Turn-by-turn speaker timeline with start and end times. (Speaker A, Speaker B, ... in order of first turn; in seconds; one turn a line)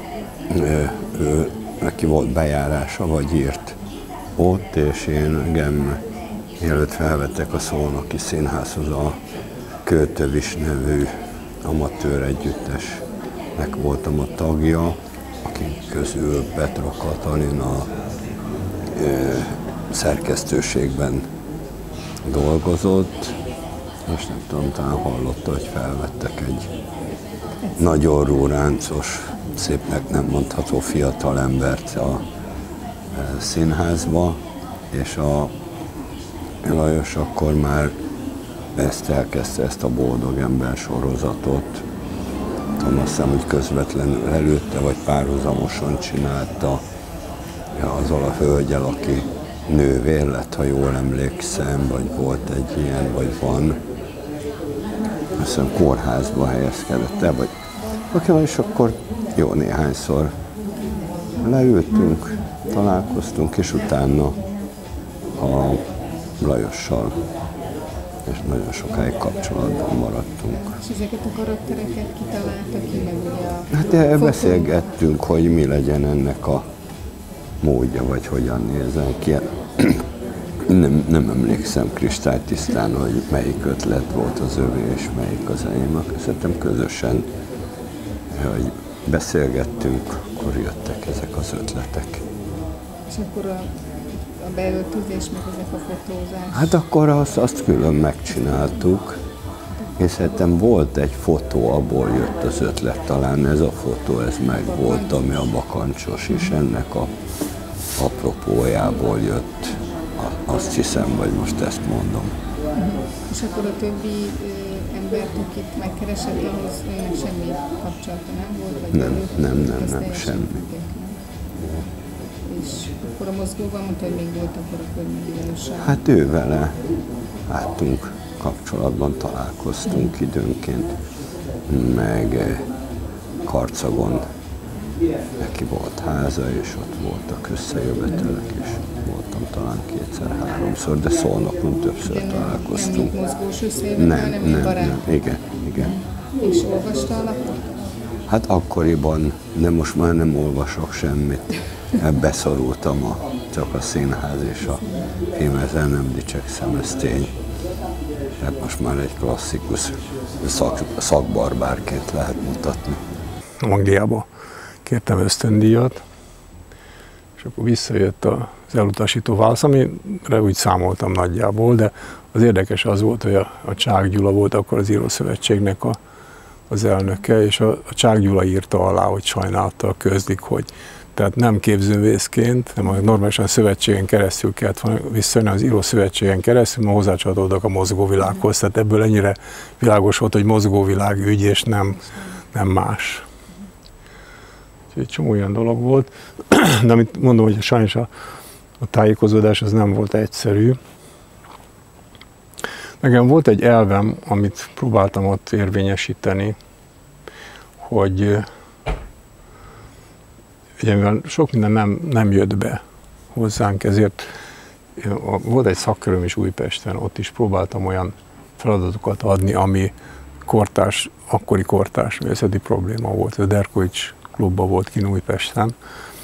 Speaker A: 0.5-3.8
Speaker A: 4.4-6.0
Speaker A: 6.6-9.2
Speaker A: 9.8-11.1
Speaker A: 11.6-13.0
Speaker A: 13.5-17.9
Speaker A: 18.9-21.2
Speaker A: 22.3-23.3
Speaker A: 24.1-26.7
Speaker A: 27.8-32.2
Speaker A: 33.1-34.4
Speaker A: 34.9-35.5
Speaker A: 36.6-37.9
Speaker A: 38.8-41.8
Speaker A: 42.8-46.8
Speaker A: 47.8-53.8
Speaker A: 55.4-57.5
Speaker A: 58.1-60.3
Speaker A: 61.4-64.4
Speaker A: 65.4-65.8
Speaker A: 66.4-67.2
Speaker A: 68.3-70.8
Speaker B: 70.5-74.7
Speaker A: 73.7-76.6
Speaker A: 77.6-80.0
Speaker A: 80.7-87.3
Speaker A: 88.3-92.2
Speaker B: 93.1-93.7
Speaker B: 94.4-96.7
Speaker A: 96.5-99.2
Speaker A: 100.0-107.1
Speaker B: 104.7-105.2
Speaker A: 108.0-112.3
Speaker B: 112.8-121.2
Speaker A: 118.9-120.7
Speaker B: 122.5-126.0
Speaker A: 125.8-126.7
Speaker A: 127.5-130.9
Speaker A: 131.7-132.7
Speaker A: 133.4-134.2
Speaker A: 135.4-143.2
Speaker B: 142.0-145.0
Speaker A: 144.0-146.0
Speaker B: 145.8-147.6
Speaker A: 148.3-151.5
Speaker A: 152.0-154.8
Speaker A: 155.3-157.3
Speaker A: 158.4-163.0
Speaker C: 163.6-164.2
Speaker C: 164.8-166.0
Speaker C: 167.4-176.0
Speaker C: 176.7-192.0
Speaker C: 192.5-193.2
Speaker C: 194.9-198.1
Speaker C: 198.8-200.8
Speaker C: 203.0-206.6
Speaker C: 207.8-208.4
Speaker C: 210.8-212.8
Speaker C: 213.3-214.2
Speaker C: 215.0-219.9
Speaker C: 220.4-225.7